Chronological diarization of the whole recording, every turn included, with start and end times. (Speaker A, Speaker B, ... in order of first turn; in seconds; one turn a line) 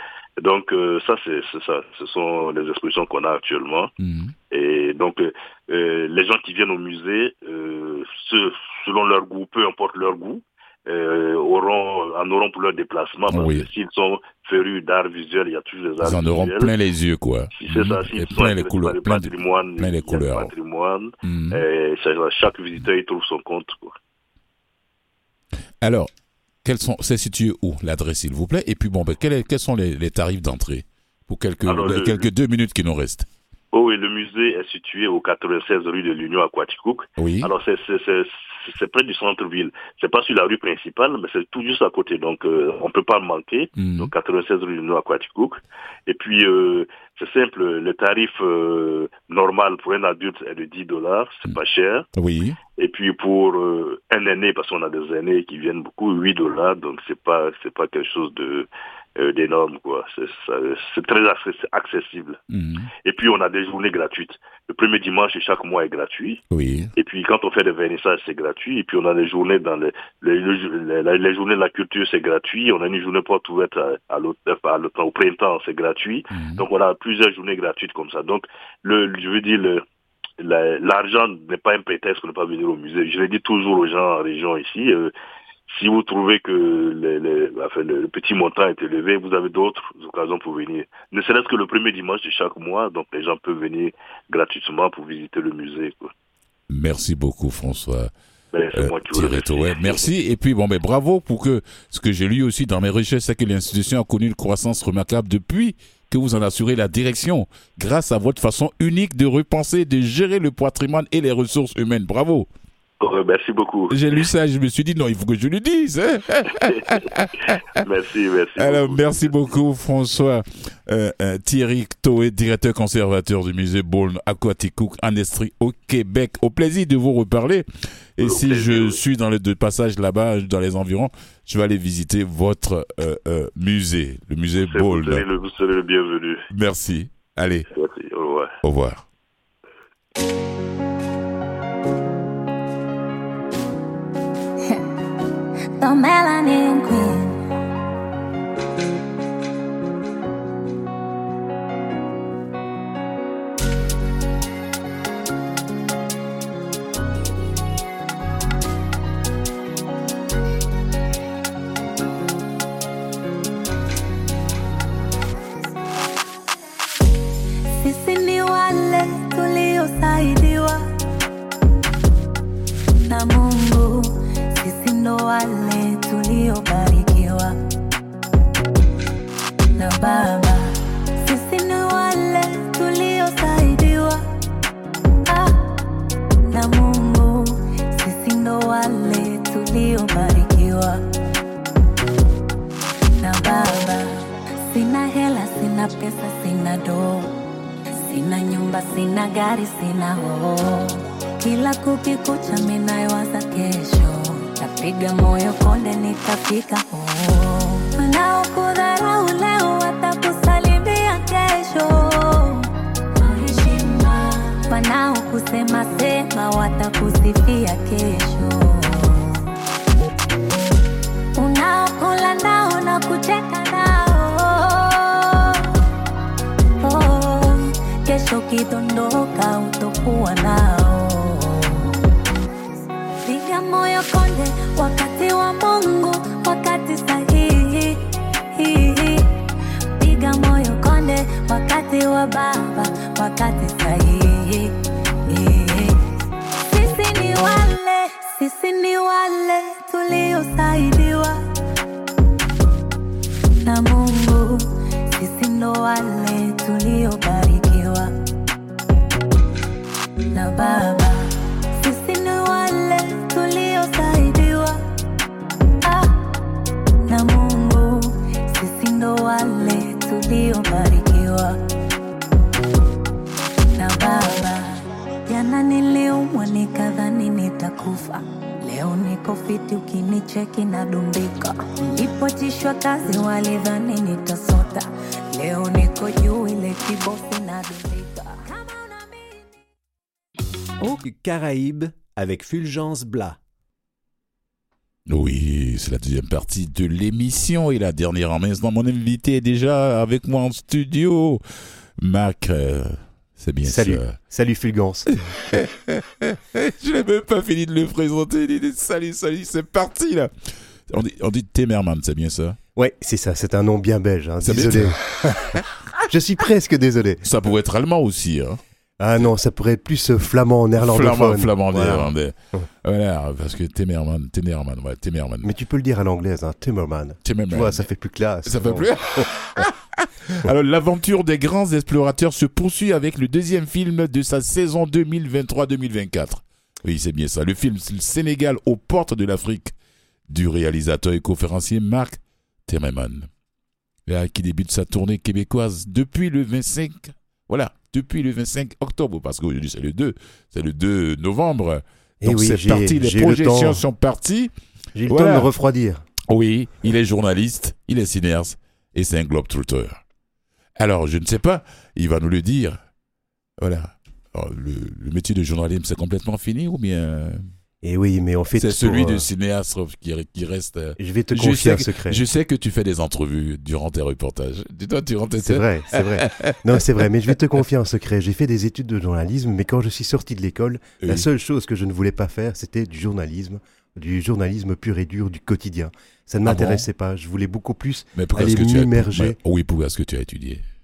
Speaker A: 0.4-3.9
Speaker B: 4.0-4.3
Speaker A: 4.5-16.7
Speaker B: 13.3-13.7
Speaker B: 16.0-20.5
Speaker A: 17.5-24.0
Speaker B: 21.2-21.6
Speaker B: 25.8-26.1
Speaker B: 26.6-33.3
Speaker A: 31.6-32.3
Speaker A: 33.7-52.1
Speaker B: 37.2-37.5
Speaker B: 43.8-44.1
Speaker B: 52.1-52.6
Speaker A: 52.8-62.4
Speaker B: 62.5-62.9
Speaker A: 63.0-66.4
Speaker B: 66.5-66.9
Speaker A: 67.0-79.8
Speaker B: 76.3-76.6
Speaker A: 80.4-85.1
Speaker A: 85.7-96.1
Speaker B: 96.7-98.1
Speaker A: 98.5-100.1
Speaker B: 98.7-112.5
Speaker A: 113.0-114.1
Speaker B: 113.9-117.8
Speaker A: 116.6-117.1
Speaker A: 117.7-119.4
Speaker B: 118.6-135.2
Speaker A: 128.2-129.0
Speaker A: 134.6-136.4
Speaker B: 136.5-137.7
Speaker A: 137.7-138.6
Speaker B: 138.6-139.1
Speaker C: 145.8-147.4
Speaker C: 167.8-170.8
Speaker C: 173.1-177.5
Speaker C: 179.8-184.2
Speaker C: 185.2-185.6
Speaker C: 186.5-191.0
Speaker C: 193.2-194.1
Speaker C: 194.7-197.3
Speaker C: 198.0-219.4
Speaker C: 221.4-225.8
Speaker C: 226.8-232.0
Speaker C: 233.2-238.0
Speaker C: 238.6-239.3
Speaker C: 240.0-244.7
Speaker C: 245.3-246.0
Speaker C: 246.7-251.4
Speaker C: 253.7-258.1
Speaker C: 260.3-261.3
Speaker C: 261.8-264.8
Speaker C: 265.8-266.2
Speaker C: 267.1-271.6
Speaker C: 273.8-289.1
Speaker D: 290.8-293.4
Speaker B: 295.1-301.4
Speaker B: 302.0-304.1
Speaker E: 303.6-305.1
Speaker B: 305.1-310.3
Speaker B: 310.9-312.6
Speaker E: 312.8-317.2
Speaker B: 314.4-315.7
Speaker B: 317.2-318.6
Speaker E: 319.0-322.7
Speaker B: 320.8-325.5
Speaker E: 325.4-329.7
Speaker B: 327.2-327.9
Speaker B: 328.4-339.8
Speaker B: 340.3-343.3
Speaker B: 344.1-354.5
Speaker E: 352.2-353.8
Speaker E: 354.9-356.1
Speaker B: 355.1-355.5
Speaker B: 356.3-360.0
Speaker B: 360.8-362.8
Speaker B: 363.6-367.5
Speaker E: 367.8-369.3
Speaker B: 368.6-377.0
Speaker E: 371.0-372.2
Speaker E: 375.4-389.4
Speaker B: 381.0-381.3
Speaker B: 386.4-386.9
Speaker B: 388.1-390.6